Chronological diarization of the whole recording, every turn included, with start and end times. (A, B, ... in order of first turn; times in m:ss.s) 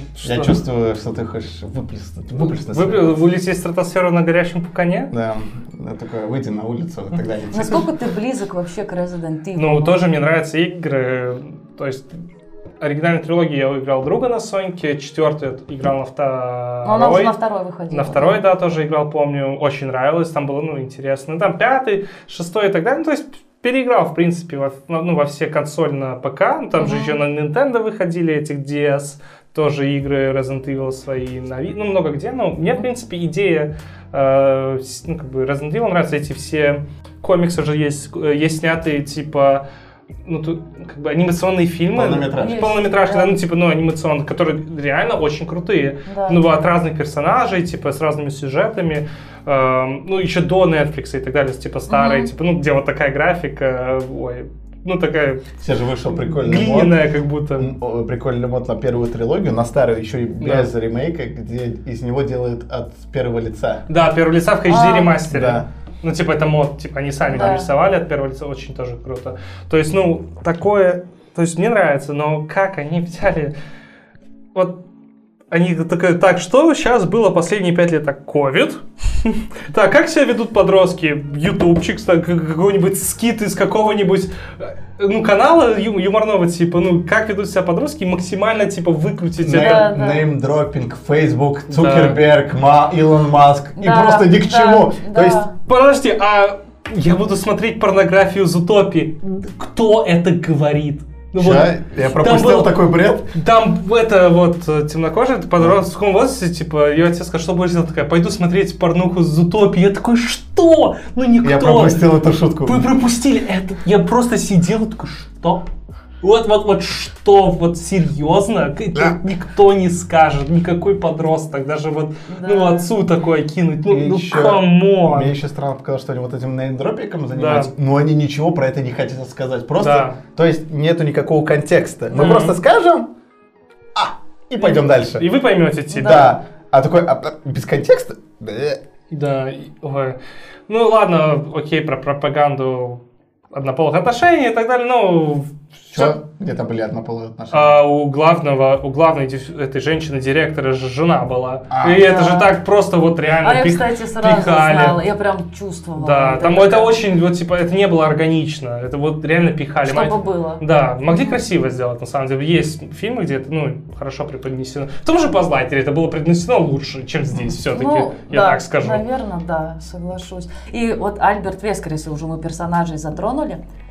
0:00.2-0:00.6 A
0:00.2-0:03.2 B
0:02.4-0:05.1 A
0:05.1-0:07.8 B
0:07.5-0:10.0 C
0:09.6-0:12.1 A
0:12.8-0:17.3 A
0:16.8-0:18.4 C
0:17.9-0:39.6 A
0:26.8-0:27.2 C
0:40.2-0:55.5 A
0:41.9-0:42.7 B
0:42.4-0:43.4 C
0:46.1-0:46.4 C
0:51.9-0:52.3 C
0:55.6-0:57.0 B
0:56.2-0:57.7 A
0:57.6-1:03.8 B
1:00.4-1:00.7 A
1:03.9-1:13.5 A
1:04.7-1:05.2 C
1:05.3-1:05.7 B
1:07.3-1:07.7 C
1:14.5-1:14.8 A
1:15.5-1:29.9 A
1:29.4-1:35.4 B
1:29.5-1:30.2 C
1:31.7-1:32.2 A
1:33.8-1:35.6 C
1:35.7-1:42.7 A
1:41.4-1:43.3 B
1:43.3-1:52.1 A
1:51.4-1:52.9 B
1:52.6-1:55.7 A
1:56.2-2:05.4 A
2:02.3-2:02.9 C
2:03.9-2:13.1 B
2:07.3-2:07.7 A
2:09.8-2:10.2 A
2:12.2-2:12.6 A
2:14.0-2:15.3 B
2:14.6-2:16.4 A
2:15.9-2:16.4 C
2:15.9-2:18.8 B
2:19.1-2:23.0 A
2:23.5-2:26.2 A
2:25.9-2:27.8 B
2:27.5-2:35.0 A
2:31.7-2:32.1 B
2:31.9-2:32.6 C
2:33.4-2:36.9 C
2:36.0-2:49.0 A
2:39.8-2:41.4 C
2:47.7-2:53.6 C